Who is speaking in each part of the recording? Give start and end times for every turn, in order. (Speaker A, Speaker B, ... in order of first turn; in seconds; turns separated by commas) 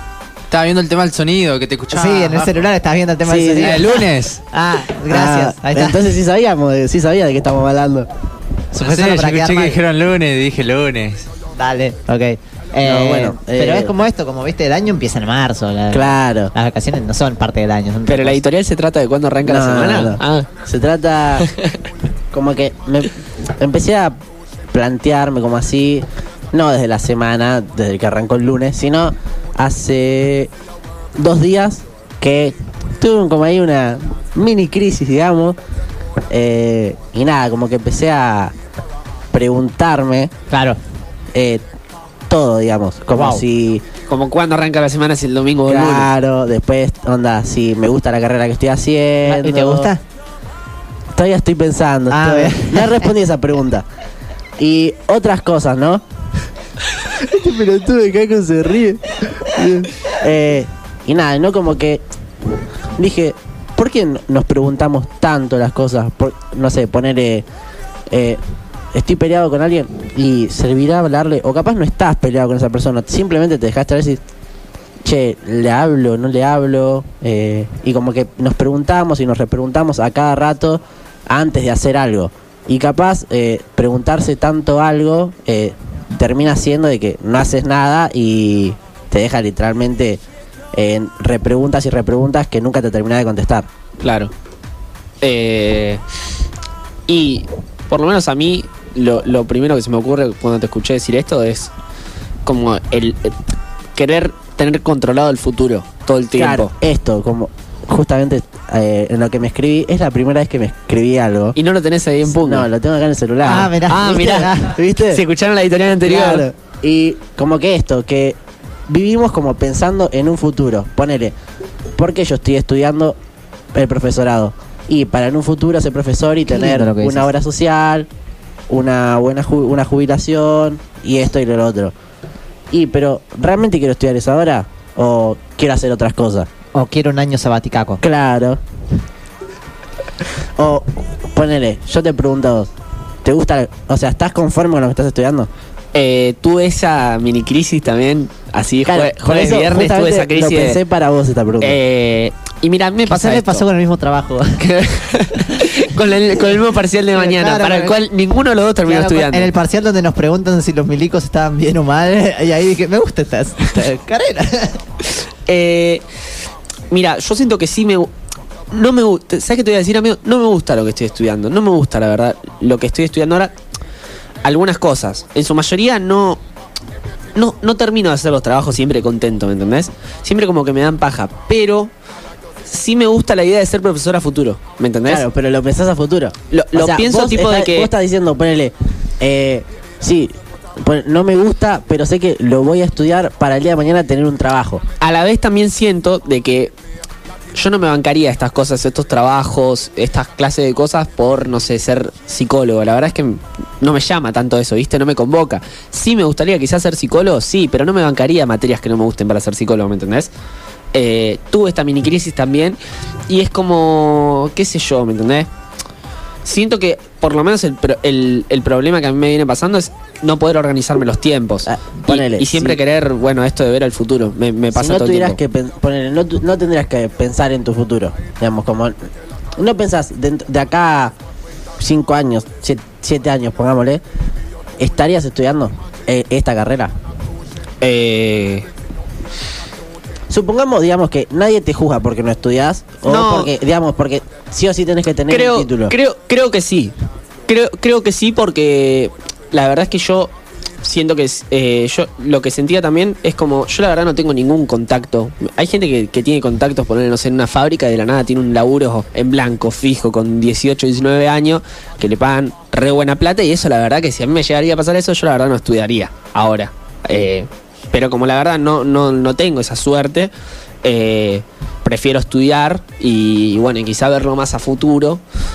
Speaker A: 0.5-2.6, Speaker B: 1.9-6.2, Speaker C: 3.2-3.8, Speaker A: 3.6-4.4, Speaker C: 5.1-8.1, Speaker B: 8.7-9.8, Speaker A: 8.8-11.3, Speaker B: 11.5-18.4, Speaker C: 12.8-13.9, Speaker C: 15.9-16.5, Speaker D: 18.1-20.5, Speaker C: 19.4-21.5, Speaker D: 21.4-21.7, Speaker C: 22.3-24.2, Speaker C: 24.7-30.5, Speaker C: 31.1-35.6, Speaker C: 36.3-38.5, Speaker C: 39.3-40.3, Speaker B: 40.5-40.8, Speaker C: 41.3-41.6, Speaker C: 42.3-43.8, Speaker B: 43.1-43.4, Speaker D: 44.1-46.1, Speaker C: 45.6-49.9, Speaker B: 49.2-50.0, Speaker C: 51.1-53.9, Speaker B: 52.1-53.1, Speaker C: 54.6-56.0, Speaker C: 57.2-62.0, Speaker C: 63.0-67.5, Speaker C: 68.1-68.4, Speaker C: 68.9-74.2, Speaker C: 75.0-90.2, Speaker C: 90.7-93.7, Speaker D: 94.0-94.3, Speaker D: 95.2-96.0, Speaker D: 97.1-101.7, Speaker D: 102.5-103.3, Speaker D: 104.0-106.7, Speaker C: 106.3-111.6, Speaker D: 111.5-112.7, Speaker C: 112.3-113.8, Speaker B: 113.4-114.8, Speaker D: 113.5-116.5, Speaker C: 114.6-115.2, Speaker C: 116.0-121.3, Speaker C: 122.0-123.2, Speaker C: 123.7-128.1, Speaker B: 126.5-127.3, Speaker C: 128.7-131.9, Speaker C: 132.7-136.5, Speaker B: 136.7-138.0, Speaker C: 138.0-138.6, Speaker C: 140.6-142.7, Speaker C: 143.2-145.5, Speaker D: 145.9-150.8, Speaker C: 148.8-151.8, Speaker D: 151.6-153.6, Speaker B: 153.1-154.8, Speaker D: 154.6-159.5, Speaker B: 155.3-155.8, Speaker B: 157.1-158.0, Speaker B: 158.8-164.8, Speaker D: 165.4-166.0, Speaker D: 166.9-168.1, Speaker D: 168.7-173.5, Speaker D: 174.4-176.4, Speaker D: 177.3-181.9, Speaker D: 182.7-185.2, Speaker C: 185.0-194.8, Speaker D: 186.5-187.9, Speaker D: 195.0-196.7, Speaker D: 197.5-210.3, Speaker D: 210.9-215.5, Speaker D: 216.4-225.4, Speaker C: 221.6-222.8, Speaker C: 224.7-228.9, Speaker C: 229.6-231.1, Speaker C: 231.8-234.0, Speaker C: 234.8-236.9, Speaker D: 237.8-238.7, Speaker C: 240.3-245.9, Speaker D: 243.1-243.5, Speaker D: 245.3-246.9, Speaker D: 247.5-270.3, Speaker D: 270.8-275.2